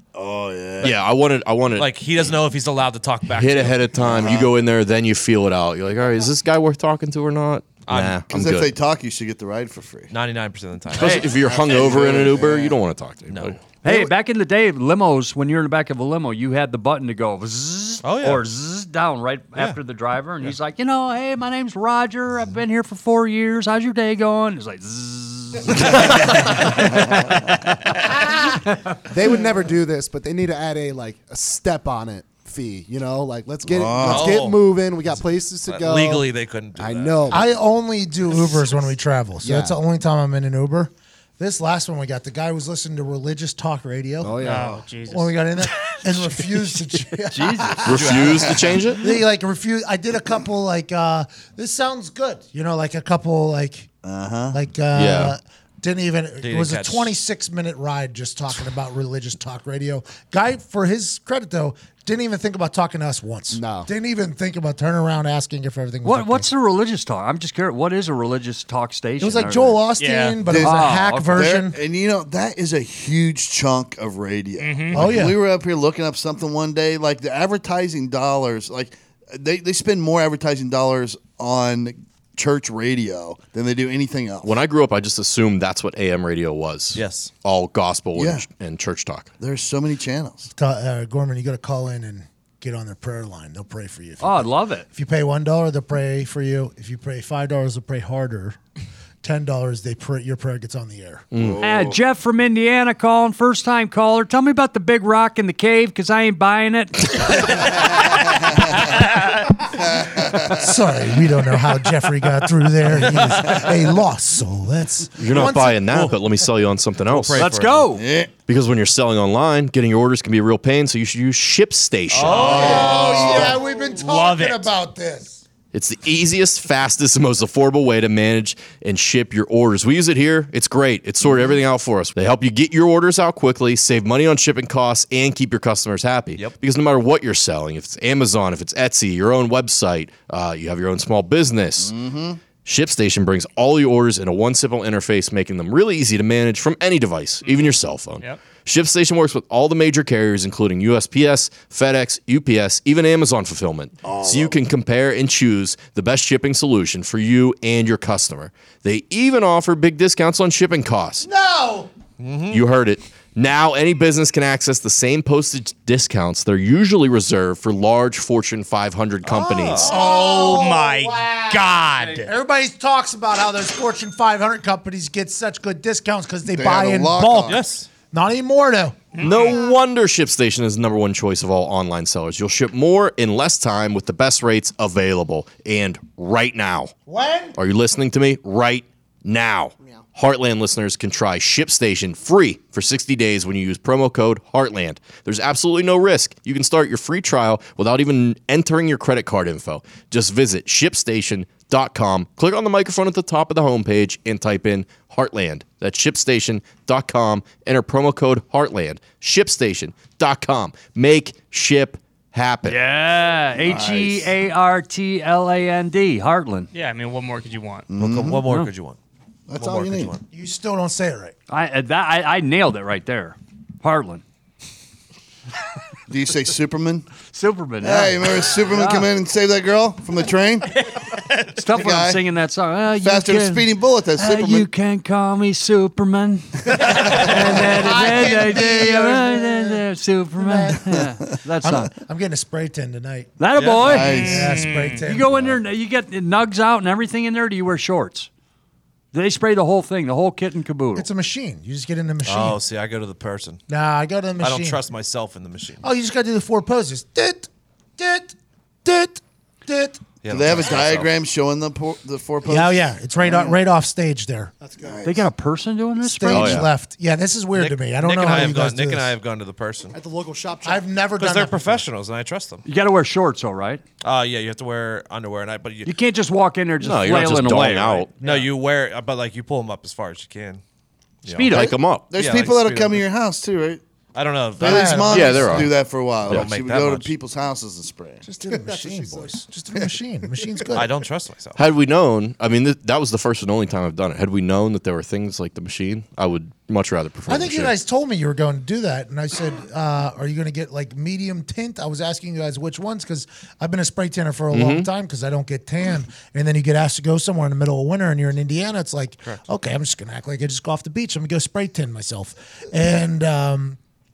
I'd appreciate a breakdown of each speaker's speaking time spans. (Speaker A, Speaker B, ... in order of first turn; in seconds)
Speaker A: 0.1-0.9, 4.0-4.5, 8.3-10.1, 11.2-12.8, 33.7-34.4, 54.0-54.6, 70.4-84.5, 88.2-88.5, 89.4-90.5, 101.4-102.0, 108.1-108.8, 109.7-110.7, 117.9-118.3, 122.2-123.6, 141.8-142.4, 154.0-154.6, 176.5-177.6, 213.6-214.3, 217.9-218.4, 219.5-220.1, 226.1-227.1, 227.8-230.8, 231.7-232.2, 233.0-234.7, 236.7-237.3, 243.8-244.5, 260.3-263.5, 264.8-265.3, 282.1-283.8, 284.6-288.3
Speaker B: 0.8-2.0, 3.3-8.7, 10.9-13.6, 47.9-49.0, 54.9-55.4, 84.4-89.3, 101.3-101.6, 115.2-117.7, 118.4-123.0, 125.7-142.0, 142.6-161.3, 162.5-170.0, 179.2-186.9, 187.6-212.8, 266.3-266.7, 276.8-278.1, 281.5-282.1, 285.1-285.8, 291.6-297.7, 304.5-304.9
Speaker C: 1.8-3.9, 7.9-8.2, 10.1-11.2, 13.3-13.6, 18.0-18.5, 34.0-37.5, 47.9-48.8, 56.4-57.1, 87.0-87.3, 113.1-113.7, 115.3-116.1, 117.1-117.8, 122.1-123.2, 162.2-162.6, 169.2-169.9, 177.5-177.9, 218.0-219.0, 219.6-220.2, 243.6-244.1, 252.2-253.6, 254.4-255.8, 260.2-261.1, 267.6-270.0, 271.2-272.6, 274.0-275.9, 278.2-280.6, 281.2-283.0, 284.1-285.4, 286.3-287.1, 290.7-291.6
Speaker D: 11.0-11.3, 13.8-27.9, 47.3-48.1, 66.0-69.9, 70.5-71.5, 94.2-94.8, 101.6-107.9, 117.4-118.0, 212.7-216.7, 218.4-218.7, 221.5-224.2, 227.3-229.1, 231.5-241.9, 243.4-244.4, 245.0-248.3, 249.1-251.1, 265.0-266.6, 272.6-273.8, 275.9-278.1, 281.3-281.8
Speaker E: 29.1-37.5, 39.4-39.8, 44.2-44.9, 63.5-63.9
Speaker F: 37.3-48.5, 49.0-53.9, 54.5-66.5, 69.2-71.8, 74.9-75.4, 90.5-98.6, 99.2-101.3, 110.4-116.1, 122.4-125.4, 161.2-161.9, 169.8-179.1, 187.1-187.6, 220.3-221.3, 237.1-239.8, 240.4-243.3, 244.2-245.6, 251.0-252.6, 253.7-254.8, 255.8-260.0, 262.4-264.5, 266.1-269.1, 270.6-271.8, 284.6-285.7, 288.2-291.0, 297.3-313.8
Speaker G: 44.4-45.3, 70.0-70.4, 74.6-75.1, 109.1-109.4, 124.0-124.7, 147.4-148.4, 169.9-172.3, 179.1-179.6, 216.7-217.9, 231.0-231.3, 244.1-245.0
Speaker H: 264.6-265.0, 269.9-270.9, 288.5-289.4